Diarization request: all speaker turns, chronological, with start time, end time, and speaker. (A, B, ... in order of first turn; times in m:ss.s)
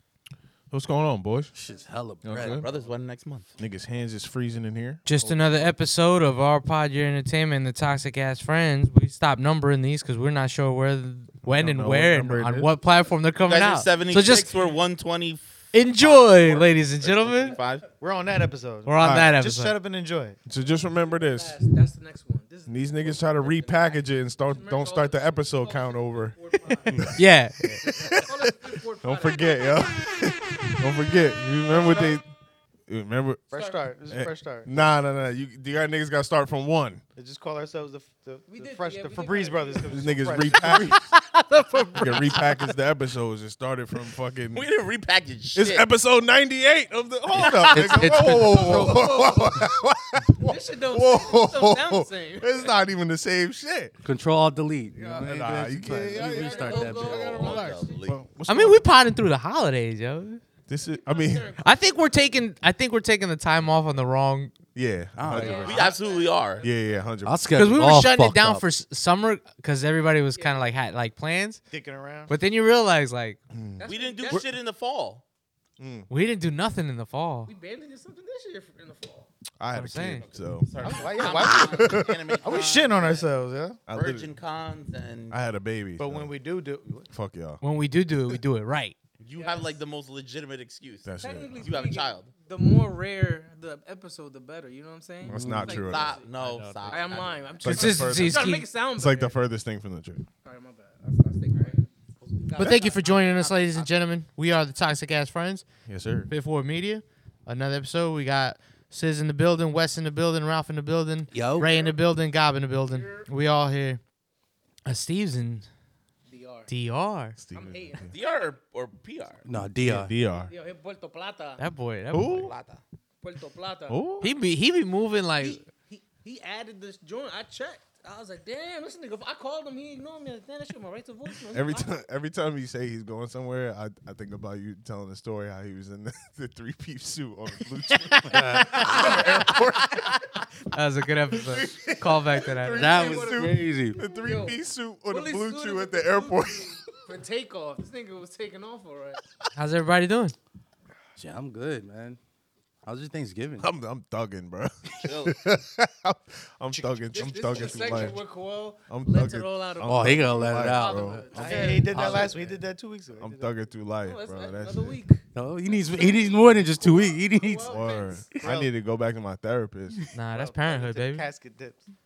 0:00.7-0:01.6 A
0:01.5-0:02.7 B
0:01.6-0:02.1 C
0:02.2-0:02.7 A
0:02.4-0:03.5 D
0:03.6-0:05.7 A
0:05.0-0:14.5 E
0:11.4-0:12.7 A
0:13.4-0:17.8 D
0:14.5-0:14.8 C
0:15.7-0:17.6 E
0:17.4-0:17.9 C
0:18.0-0:20.4 F
0:18.8-0:19.8 E
0:19.0-0:19.4 A
0:20.4-0:21.7 A
0:20.7-0:27.2 C
0:22.7-0:26.4 A
0:26.9-0:27.2 B
0:26.9-0:32.2 A
0:27.1-0:27.8 E
0:27.8-0:30.0 C
0:31.7-0:32.2 F
0:32.9-0:33.5 A
0:33.5-0:34.8 F
0:33.5-0:34.0 C
0:34.1-0:37.0 A
0:37.2-0:41.0 F
0:38.5-0:40.8 C
0:39.9-0:41.1 A
0:41.1-0:42.0 E
0:41.7-0:42.4 C
0:42.0-0:44.7 A
0:44.5-0:45.9 D
0:45.6-0:54.0 A
0:47.3-0:48.3 D
0:47.7-0:49.1 B
0:48.3-0:49.8 C
0:50.4-0:52.8 C
0:54.0-0:57.3 B
0:54.9-0:58.8 A
0:56.1-0:58.2 C
0:56.6-0:58.2 D
0:58.4-1:00.4 E
1:00.7-1:01.5 A
1:00.8-1:02.0 C
1:01.6-1:04.5 E
1:04.7-1:06.0 A
1:05.2-1:05.6 B
1:05.3-1:06.8 C
1:05.6-1:06.7 D
1:06.6-1:07.4 A
1:07.2-1:08.6 B
1:07.5-1:11.6 E
1:10.3-1:10.7 C
1:11.7-1:12.3 F
1:12.3-1:13.4 E
1:13.5-1:14.4 A
1:13.8-1:14.4 C
1:13.8-1:15.2 D
1:15.8-1:16.1 A
1:16.1-1:17.5 E
1:17.4-1:19.3 C
1:19.6-1:20.8 A
1:19.7-1:20.3 E
1:20.2-1:23.3 D
1:20.8-1:23.8 F
1:21.3-1:22.2 A
1:23.9-1:24.3 A
1:23.9-1:25.4 D
1:25.3-1:26.3 A
1:26.0-1:27.1 F
1:27.1-1:27.6 A
1:27.6-1:29.0 E
1:29.2-1:32.3 D
1:29.3-1:29.8 C
1:31.0-1:31.7 A
1:31.2-1:39.4 C
1:35.2-1:40.2 A
1:35.3-1:35.8 B
1:35.6-1:37.6 D
1:37.6-1:38.7 E
1:40.4-1:41.9 C
1:42.2-1:43.9 D
1:42.4-1:43.2 C
1:42.6-1:54.0 E
1:45.9-1:46.3 A
1:51.3-1:51.7 B
1:51.6-1:52.0 C
1:52.9-1:53.3 C
1:54.8-1:55.7 E
1:56.3-1:56.7 C
1:56.7-1:57.4 E
1:57.4-1:58.1 A
1:57.5-1:58.1 C
1:58.1-1:59.4 D
1:59.4-2:00.1 B
1:59.8-2:00.5 A
2:00.3-2:01.6 C
2:01.6-2:02.5 E
2:02.1-2:02.5 A
2:02.4-2:02.8 D
2:03.2-2:04.3 C
2:03.9-2:04.3 A
2:04.2-2:05.6 E
2:05.4-2:12.0 C
2:11.5-2:20.0 A
2:18.0-2:19.9 E
2:18.2-2:18.8 B
2:18.8-2:19.6 F
2:18.8-2:19.3 C
2:20.7-2:22.9 E
2:21.5-2:27.0 A
2:22.4-2:29.2 C
2:22.7-2:24.0 B
2:29.6-2:30.3 E
2:31.2-2:32.2 B
2:32.8-2:33.7 B
2:33.6-2:38.3 A
2:35.0-2:35.4 D
2:36.7-2:38.0 F
2:37.1-2:42.4 C
2:38.8-2:42.4 A
2:39.8-2:42.3 B
2:41.3-2:43.7 F
2:43.2-2:45.0 A
2:44.0-2:48.4 C
2:45.3-2:47.7 B
2:47.6-2:50.0 A
2:48.4-2:48.7 F
2:50.1-2:51.3 E
2:50.3-2:51.8 F